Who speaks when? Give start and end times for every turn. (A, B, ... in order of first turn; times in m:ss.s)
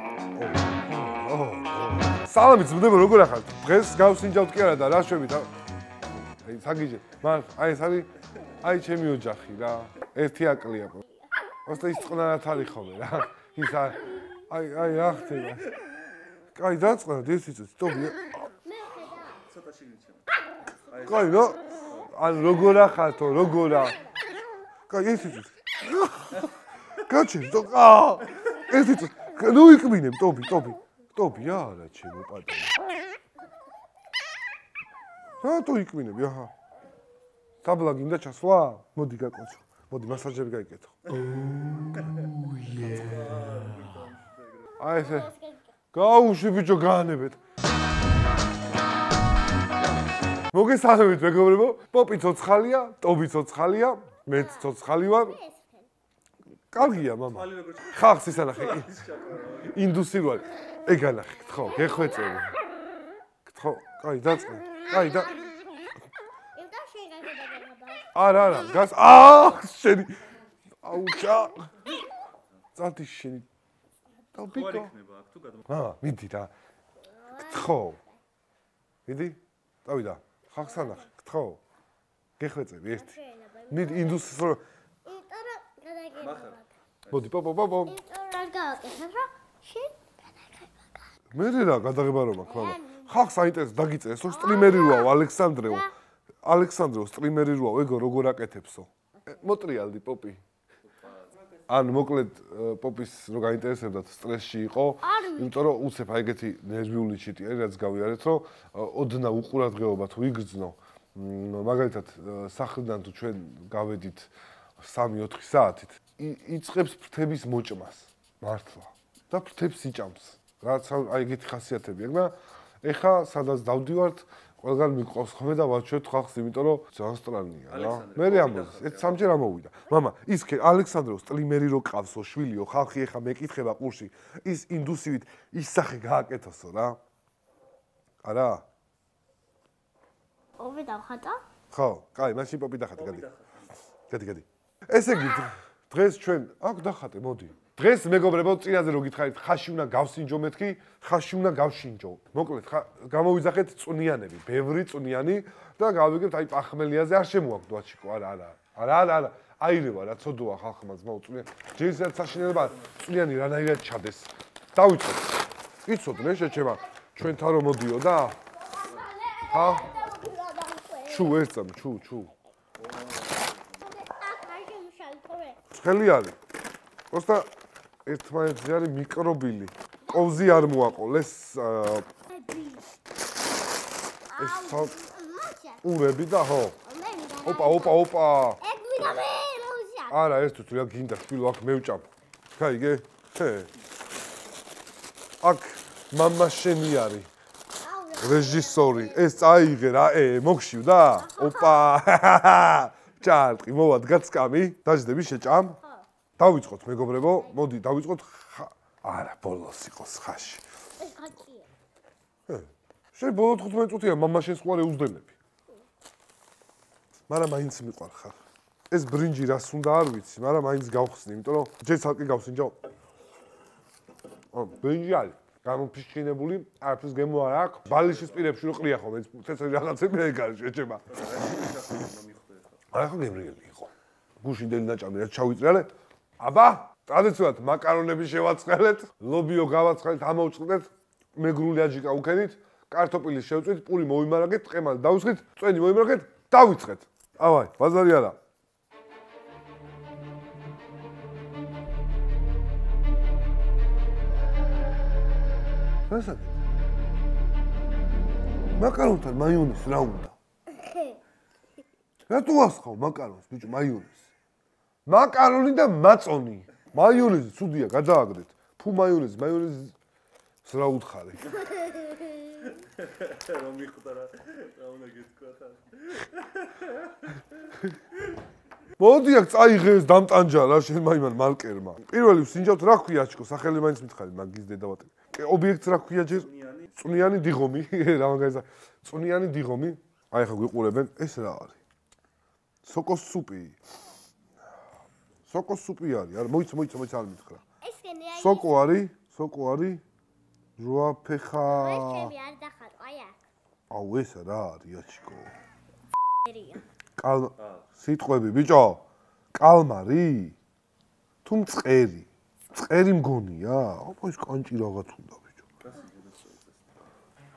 0:00.3-0:05.5 A
0:06.4-0:08.1 A
0:08.6-0:11.0 A
0:11.2-0:12.3 B
0:11.6-0:15.7 A
0:13.6-0:14.4 B
0:16.5-0:18.3 A
0:18.6-0:19.4 B
0:19.4-0:20.3 C
0:20.8-0:22.0 B
0:20.9-0:22.1 C
0:21.0-0:24.0 A
0:23.7-0:24.4 B
0:24.9-0:32.7 A
0:35.4-0:36.5 A
0:37.6-0:43.9 A
0:41.9-0:44.7 C
0:44.8-0:45.8 B
0:44.8-0:45.3 A
0:45.9-0:47.4 A
0:50.5-0:55.4 A
0:54.3-0:55.9 B
0:56.7-0:59.0 A
0:56.8-0:59.8 C
0:59.7-1:02.6 A
1:01.6-1:02.4 B
1:03.4-1:05.4 A
1:04.8-1:08.8 B
1:08.1-1:10.2 A
1:10.8-1:11.7 A
1:12.8-1:13.4 A
1:14.3-1:14.9 A
1:14.5-1:15.7 C
1:15.7-1:16.5 A
1:17.0-1:18.2 B
1:17.5-1:18.0 A
1:19.1-1:21.6 A
1:20.6-1:21.1 B
1:22.4-1:23.1 A
1:22.9-1:24.3 B
1:23.7-1:24.6 A
1:25.0-1:26.7 B
1:26.2-1:27.3 C
1:27.1-1:28.0 A
1:27.8-1:31.1 B
1:31.3-1:35.9 A
1:32.4-1:33.2 B
1:34.2-1:35.9 B
1:36.4-1:40.4 A
1:39.2-1:39.4 B
1:40.8-1:41.6 C
1:41.7-2:17.0 A
1:45.0-1:45.6 B
2:07.7-2:09.3 C
2:18.2-2:18.6 A
2:20.6-2:21.4 B
2:21.7-2:23.3 A
2:23.0-2:23.8 C
2:24.1-2:48.4 A
2:41.9-2:43.0 C
2:48.5-2:51.5 B
2:49.5-2:49.9 A
2:51.1-2:52.3 A
2:52.8-2:53.9 C
2:53.8-2:55.6 B
2:55.7-2:56.4 A
2:57.1-2:57.5 A
2:58.0-3:02.1 A
3:00.0-3:00.9 B
3:02.3-3:02.9 B
3:04.3-3:05.8 B
3:04.4-3:04.9 A
3:05.8-3:06.8 A
3:06.8-3:10.2 B
3:07.4-3:08.6 A
3:10.1-3:13.7 A
3:15.4-3:17.3 A
3:17.8-3:19.6 B
3:18.2-3:25.8 A
3:21.1-3:21.9 B
3:25.8-3:26.1 B
3:26.4-3:30.6 A
3:27.3-3:27.6 B
3:31.0-3:31.7 B
3:32.5-3:35.3 A
3:37.3-3:38.4 A
3:38.9-3:42.8 A
3:44.5-3:51.1 A
3:47.8-3:48.5 C
3:51.1-3:52.8 C
3:52.9-4:08.4 A
4:16.1-4:16.6 A
4:18.8-4:20.3 A
4:20.7-4:21.2 B
4:22.3-4:24.3 A
4:25.0-4:29.9 A
4:30.6-4:31.6 A
4:31.7-4:32.6 B
4:32.6-4:37.7 C
4:39.0-4:51.8 A
4:46.2-4:47.0 C
4:52.8-4:53.8 A
4:55.5-4:57.6 A
4:57.8-4:58.8 B
4:58.3-5:00.0 A
5:00.8-5:02.3 A
5:01.6-5:03.4 B
5:03.9-5:05.5 A
5:06.4-5:06.8 B
5:07.2-5:09.0 A
5:07.6-5:07.9 C
5:09.5-5:10.6 A
5:11.4-5:15.6 A
5:15.8-5:16.9 C